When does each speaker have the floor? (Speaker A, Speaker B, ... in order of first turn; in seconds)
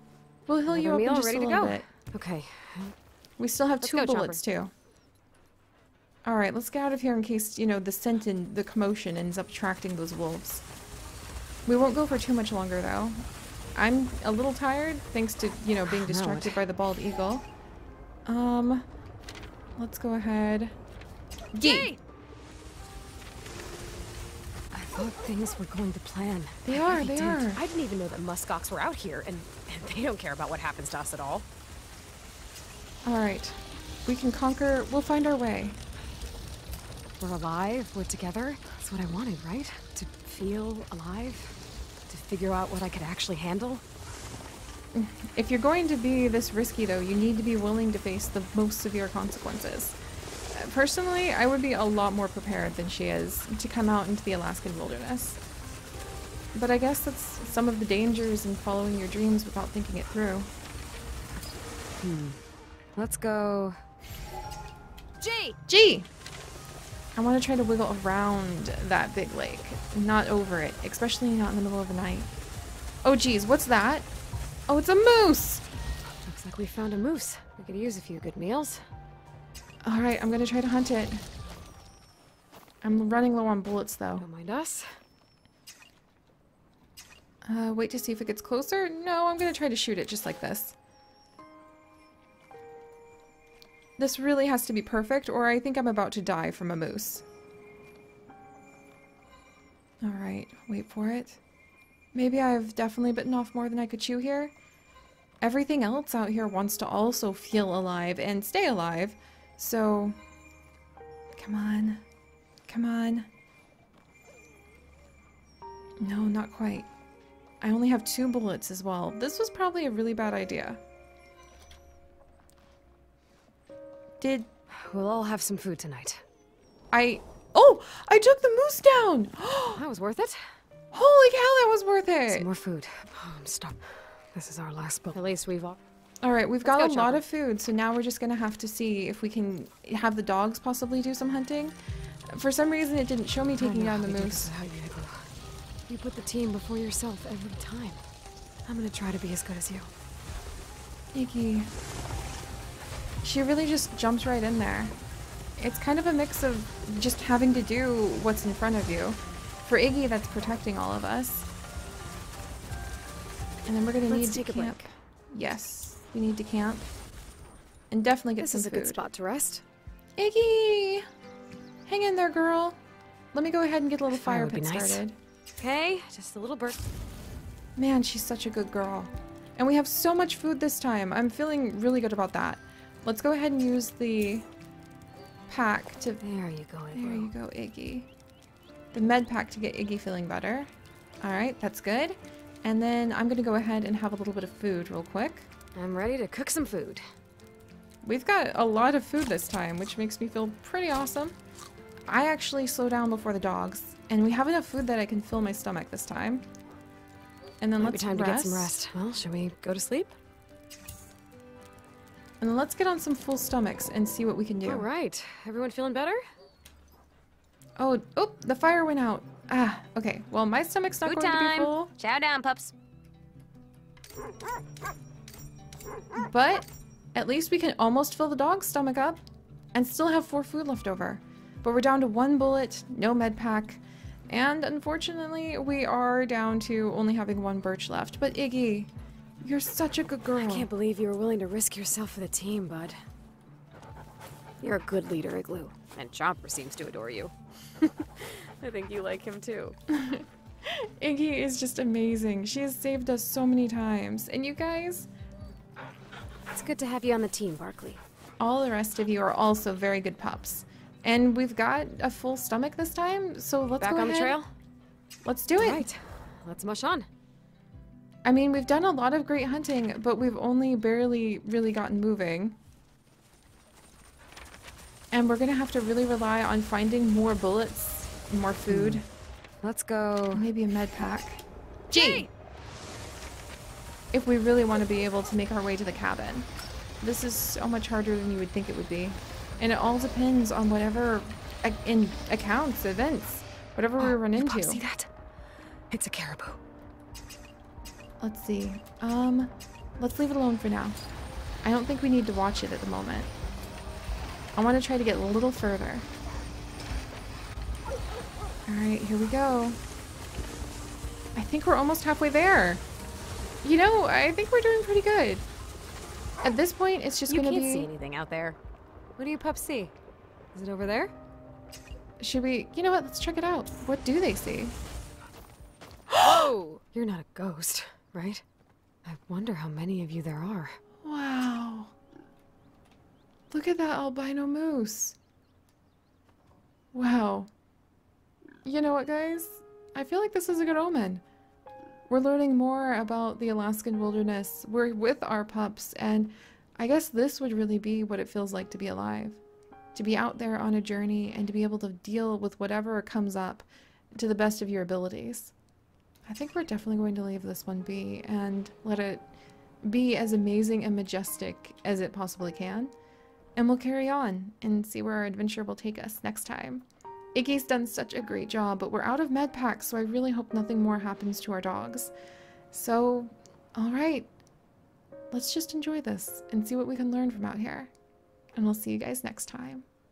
Speaker A: 0.5-1.9, 3.4-4.7, 6.2-10.6, 11.7-17.4, 18.2-18.9, 19.8-20.7, 21.5-21.9, 26.6-27.6, 33.0-35.8, 44.9-50.0, 50.5-55.4, 56.5-60.5, 65.7-66.1, 67.1-72.3, 73.0-74.1, 74.7-75.6, 79.8-81.2, 82.8-84.3, 87.5-90.8, 94.0-97.2, 100.0-101.4, 102.1-104.5, 105.4-110.2, 111.3-112.0, 112.7-113.3, 116.0-116.9, 117.6-120.8, 124.2-124.5, 126.9-129.8, 130.9-132.5, 136.2-141.8, 142.3-144.5, 151.1-151.7, 153.2-154.9, 155.6-161.5, 163.7-166.8, 167.9-169.0, 170.2-171.0, 171.9-172.8, 173.3-175.2, 177.8-184.5, 185.5-186.2, 186.9-188.1, 188.9-190.7, 191.2-195.5, 198.0-201.3, 202.1-206.4, 207.6-208.8, 212.4-214.9, 217.8-221.9, 226.2-229.2, 229.7-238.9, 239.4-240.7, 249.9-255.1, 258.4-264.4, 265.2-265.9, 268.2-272.6, 275.1-279.1, 280.3-282.3, 284.1-286.5, 287.0-294.8, 298.2-301.0, 301.6-303.3, 304.6-306.1, 308.7-309.8, 311.4-312.8, 313.6-315.4, 316.4-317.9, 322.2-324.8, 326.1-326.5, 331.0-331.9, 333.5-335.2, 336.9-337.5, 338.6-341.2, 342.1-349.4, 349.9-355.5, 356.2-359.2, 359.8-362.9, 363.6-372.1, 372.7-374.3, 375.3-377.9, 378.5-379.8
Speaker B: 0.7-2.9, 3.8-4.4, 15.9-16.6, 21.6-22.0, 24.7-31.4, 37.2-41.5, 42.1-43.8, 62.0-62.4, 63.0-63.8, 65.2-65.5, 76.2-78.8, 84.2-84.9, 124.7-126.2, 129.8-130.4, 132.3-135.8, 136.6-137.2, 143.6-145.3, 145.9-148.0, 148.7-149.9, 164.1-164.9, 168.4-169.6, 174.1-175.0, 175.6-176.8, 186.2-187.3, 195.8-197.0, 207.8-210.1, 214.6-216.2, 221.0-222.7, 240.4-243.0, 244.6-249.8, 256.5-258.0, 263.8-264.5, 265.6-267.1, 278.7-279.0, 279.6-280.4, 281.9-282.3, 294.0-295.1, 295.9-296.6, 317.3-318.6, 319.2-319.9, 320.5-321.1, 326.2-328.4, 329.0-330.8